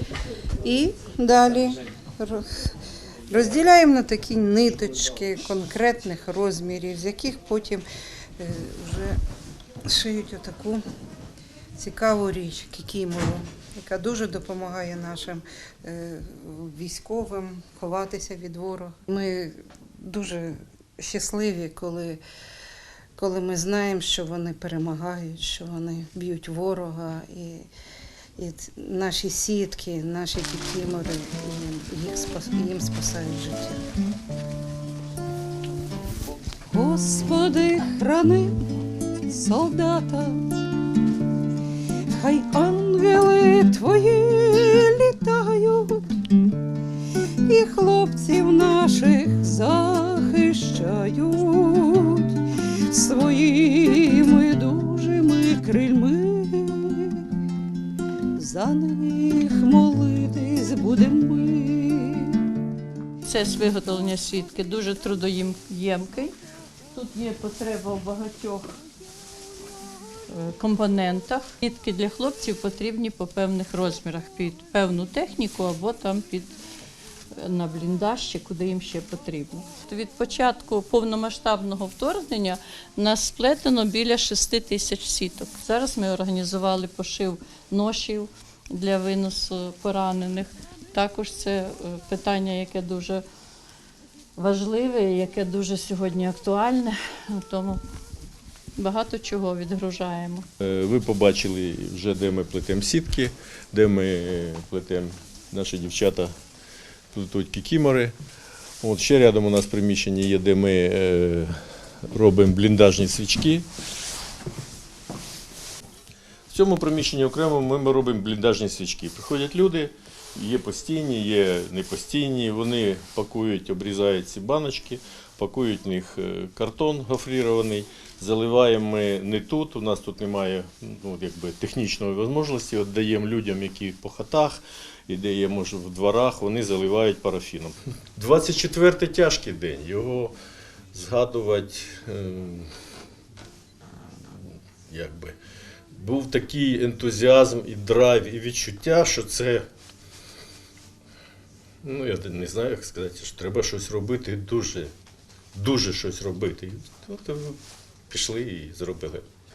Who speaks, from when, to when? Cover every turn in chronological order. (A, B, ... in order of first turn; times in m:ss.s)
0:00.6-0:02.7 A
0:03.3-0:07.8 A
0:08.4-0:09.2 A
0:09.8-0:10.8 A
0:11.8-0:22.2 A
0:23.2-0:27.6 A
0:28.4-0:33.8 A
0:36.7-0:38.4 B
0:36.8-0:38.4 A
0:39.3-0:40.3 B
0:39.3-0:40.3 A
0:42.2-0:45.8 A
0:42.2-0:45.8 B
0:47.5-0:49.6 A
0:47.5-0:52.2 B
0:50.2-0:51.1 A
0:52.9-0:57.0 B
0:54.9-0:55.3 A
0:56.0-0:56.4 A
0:58.4-1:00.0 A
0:58.4-1:02.3 B
1:00.7-1:02.2 A
1:03.2-1:06.3 C
1:06.9-1:08.7 C
1:10.3-1:16.5 C
1:17.4-1:33.2 C
1:34.4-1:37.8 C
1:38.8-1:40.4 C
1:40.6-1:46.3 D
1:47.1-1:48.2 D
1:48.8-1:53.7 D
1:56.5-2:20.3 D
2:20.9-2:22.7 D
2:24.9-2:25.4 D
2:25.9-2:29.6 D
2:31.8-2:34.9 D
2:35.5-2:37.6 D
2:38.1-2:39.3 D